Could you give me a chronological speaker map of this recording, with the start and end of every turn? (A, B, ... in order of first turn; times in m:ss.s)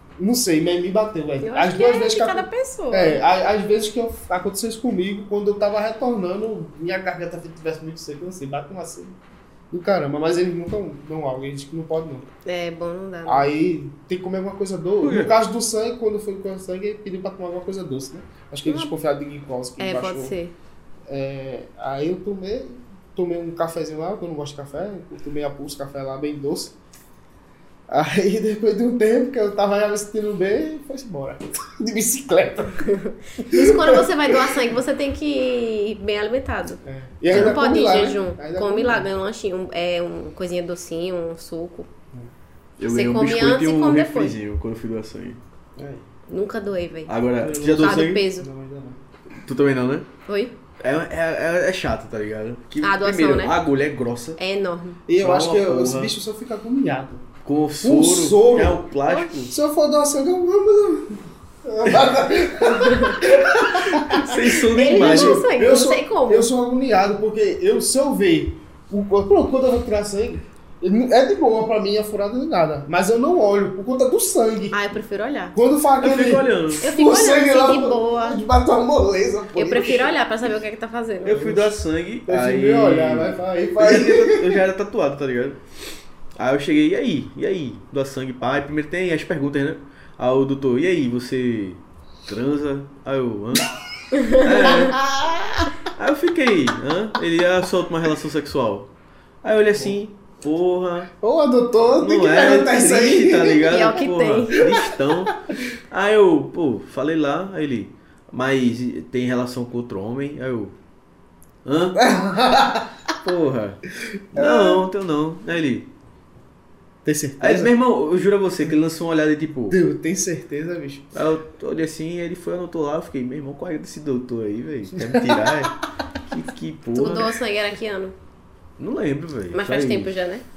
0:00.2-0:09.2 A
0:01.4-0:03.2 B
0:09.7-0:12.3 A
0:12.4-0:13.5 B
0:13.2-0:20.4 A
0:15.0-0:15.3 C
0:18.6-0:18.9 B
0:19.8-0:20.5 B
0:21.1-0:26.7 A
0:27.9-0:32.8 A
0:32.8-0:41.9 B
0:33.4-0:34.6 A
0:36.8-0:39.1 A
0:37.3-0:37.6 C
0:42.8-0:45.4 C
0:42.8-0:44.4 B
0:45.8-0:46.0 A
0:46.3-0:47.1 B
0:47.1-0:48.2 C
0:47.4-0:49.0 A
0:47.7-0:48.5 B
0:49.3-0:50.1 C
0:50.2-0:50.5 B
0:50.8-0:54.4 C
0:52.8-0:53.6 B
0:54.4-0:55.0 B
0:55.1-0:57.2 A
0:55.2-0:56.1 C
0:57.4-0:59.5 C
0:57.8-0:58.8 A
0:59.5-1:14.8 A
1:02.6-1:03.2 B
1:03.6-1:05.4 C
1:04.7-1:06.5 B
1:14.7-1:15.6 B
1:15.5-1:20.1 A
1:16.0-1:16.8 C
1:16.8-1:18.4 B
1:19.5-1:21.6 B
1:21.2-1:25.6 C
1:21.3-1:21.7 A
1:22.3-1:24.6 A
1:26.4-1:33.7 C
1:34.1-1:34.8 B
1:34.3-1:35.1 C
1:34.6-1:35.7 A
1:35.9-1:38.9 C
1:39.4-1:41.1 C
1:41.2-1:43.8 A
1:41.9-1:50.7 C
1:43.7-1:44.6 B
1:44.6-1:44.9 A
1:51.6-1:52.0 C
1:51.9-1:53.1 A
1:53.2-1:53.8 C
1:54.0-1:54.8 A
1:54.3-1:55.9 C
1:57.0-1:57.7 A
1:57.4-1:59.8 C
1:59.7-2:01.1 A
2:01.1-2:07.3 C
2:05.0-2:05.7 A
2:06.9-2:08.1 B
2:08.8-2:10.1 C
2:09.5-2:10.4 B